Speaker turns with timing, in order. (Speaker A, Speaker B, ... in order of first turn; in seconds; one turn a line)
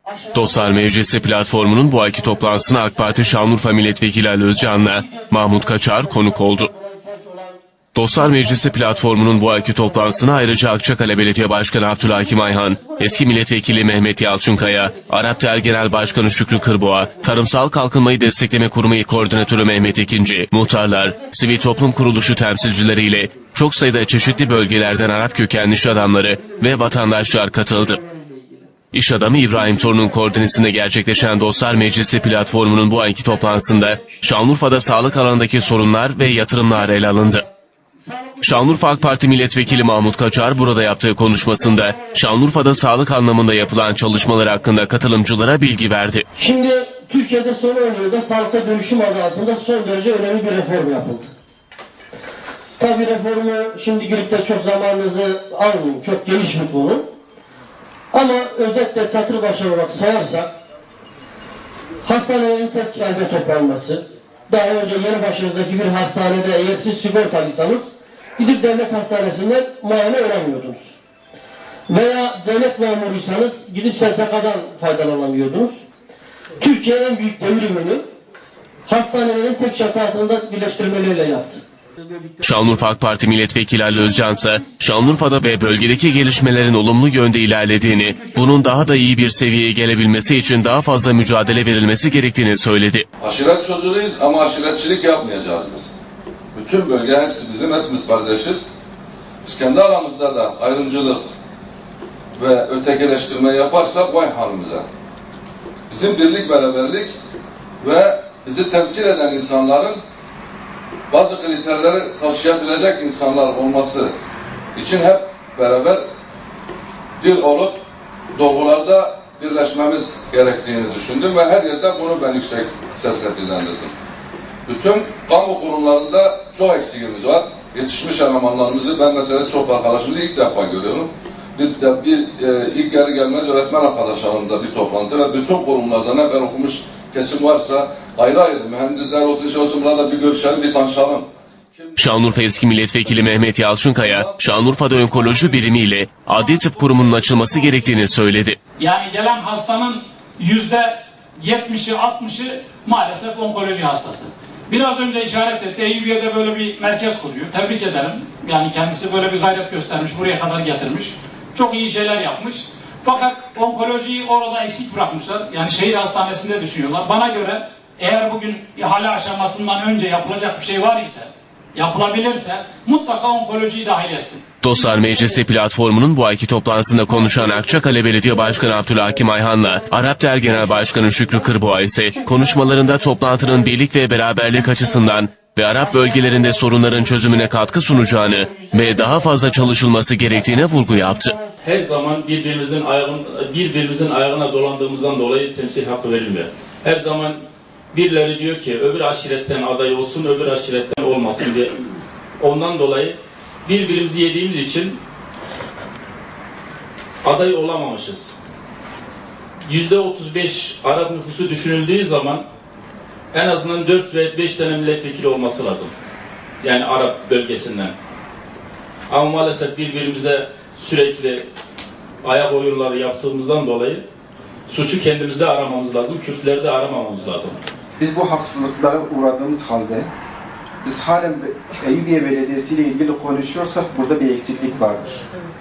Speaker A: 0.3-6.7
Speaker B: 6.5-7.6
Speaker A: 8.0-28.0
Speaker B: 28.0-28.6
Speaker A: 28.9-37.5
Speaker A: 38.4-46.3
Speaker B: 46.4-51.3
Speaker B: 52.8-57.1
Speaker B: 58.1-60.5
Speaker B: 62.0-71.0
Speaker B: 71.9-75.8
Speaker B: 76.6-78.0
Speaker B: 78.8-81.6
Speaker A: 82.4-93.1
Speaker C: 93.2-95.9
Speaker C: 96.5-98.7
Speaker C: 99.4-101.2
Speaker C: 102.4-104.8
Speaker C: 105.9-107.1
Speaker C: 107.8-110.0
Speaker C: 111.1-114.1
Speaker C: 114.8-116.0
Speaker C: 117.2-117.8
Speaker C: 118.3-123.9
Speaker C: 124.7-144.5
Speaker A: 142.0-148.6
Speaker D: 146.4-148.2
Speaker D: 148.8-174.4
Speaker A: 174.6-191.4
Speaker B: 188.4-188.7
Speaker E: 191.6-201.7
Speaker E: 202.4-205.0
Speaker E: 207.2-208.3
Speaker E: 209.7-212.4
Speaker E: 213.3-215.9
Speaker E: 216.6-217.9
Speaker E: 219.1-221.4
Speaker E: 222.2-224.0
Speaker E: 224.7-227.6
Speaker F: 228.0-230.1
Speaker F: 230.8-235.2